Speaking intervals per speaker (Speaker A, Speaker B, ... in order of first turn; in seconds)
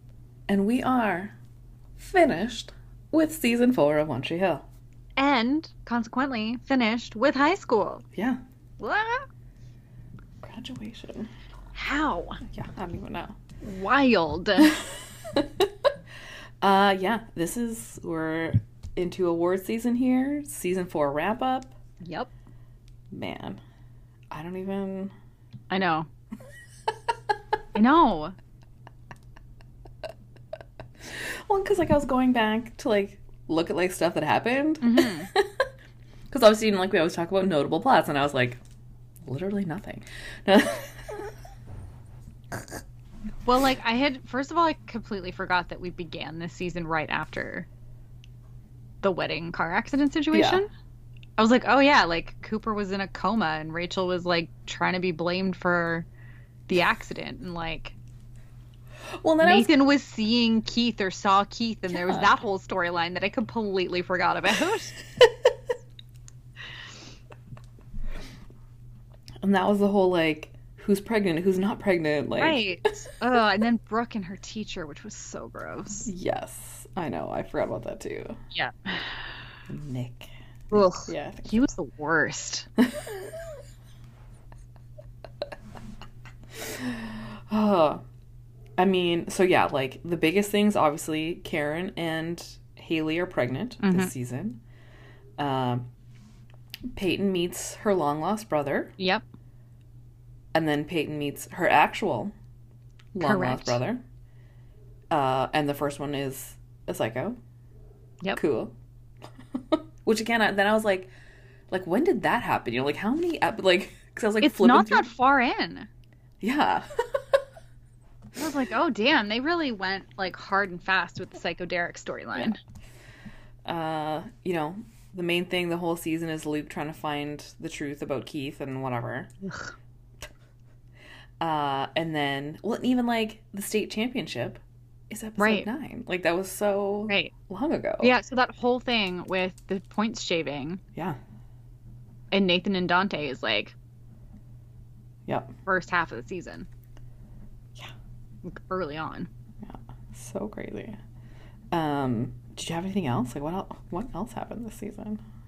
Speaker A: 0.5-1.4, 2.0-4.7, 8.2-8.4, 10.4-11.3, 12.5-13.4, 14.6-15.7, 16.6-21.7, 23.1-23.6, 24.3-25.1, 31.0-35.5, 36.3-38.6, 39.2-41.3, 50.3-50.6, 59.1-59.8, 61.9-62.3, 69.4-72.6, 76.1-78.4, 79.7-80.3, 81.0-81.7, 82.8-83.3, 86.5-88.0, 88.8-94.6, 95.4-95.9, 96.9-99.0, 100.5-102.3, 103.1-104.0, 105.1-107.4, 108.3-108.8, 109.6-111.1, 111.7-115.1, 116.4-117.4, 123.7-129.3, 131.4-138.1, 145.3-145.5, 149.6-151.0, 151.7-155.2
Speaker B: 5.2-8.1, 8.8-9.3, 11.8-12.4, 13.6-14.8, 22.0-22.3, 25.7-26.1, 27.7-28.4, 34.8-35.3, 43.5-47.7, 49.0-50.7, 51.4-56.1, 56.7-58.0, 59.4-65.0, 72.4-76.1, 78.5-79.3, 80.7-82.7, 93.8-94.1, 99.0-99.2, 103.2-103.8, 114.4-115.9, 118.4-122.6, 129.4-129.7, 135.4-135.7, 138.0-140.8, 142.3-143.7, 145.7-146.7, 148.4-149.3